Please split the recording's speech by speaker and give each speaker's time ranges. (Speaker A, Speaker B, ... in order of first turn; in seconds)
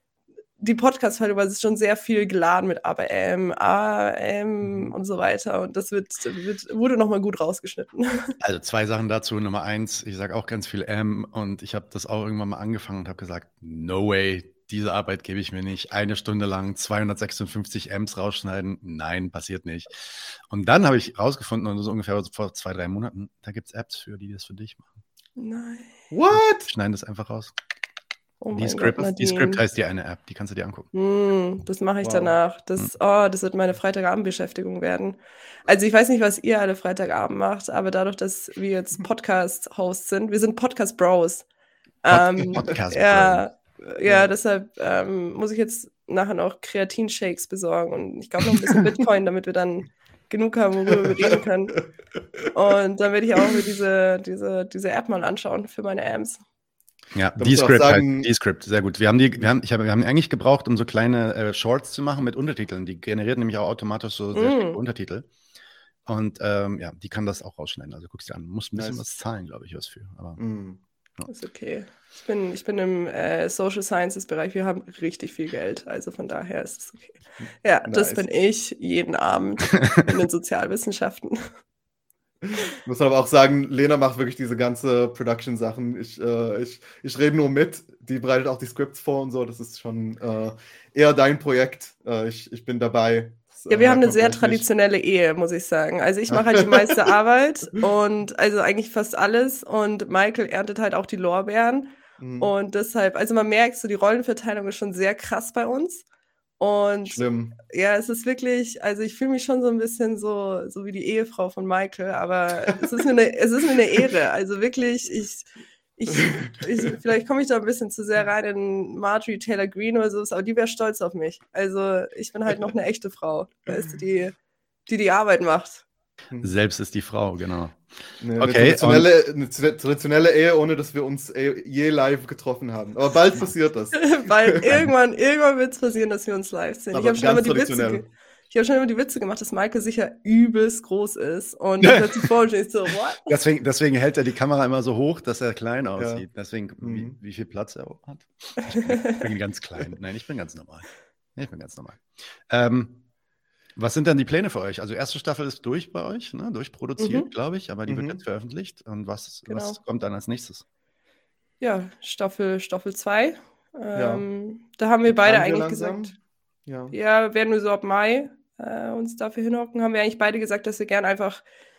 Speaker A: 0.6-8.3, 25.4-25.9, 28.4-29.6, 30.9-41.5, 42.0-51.8, 52.5-56.4, 64.3-64.8, 71.3-81.5, 93.7-106.0, 106.6-124.3, 124.9-125.8, 133.9-143.4, 148.7-149.2, 157.0-157.3, 159.5-159.8, 161.6-166.1, 166.9-171.4
Speaker B: 8.4-24.9, 26.6-27.5, 28.5-30.9, 42.1-43.5, 57.1-65.3, 66.1-70.4, 126.4-127.8, 128.4-129.1, 141.8-142.3, 143.2-153.0, 153.8-160.6
Speaker C: 26.1-26.7, 32.0-32.4, 44.0-44.3, 57.4-58.3, 68.8-69.0, 70.4-70.8, 77.4-78.3, 82.8-94.7, 96.3-97.0, 102.2-102.5, 107.0-107.6, 116.2-116.5, 128.2-134.7, 136.9-138.1, 146.0-146.2, 146.8-147.2, 157.9-158.2, 163.9-164.3, 165.1-166.2, 166.7-166.9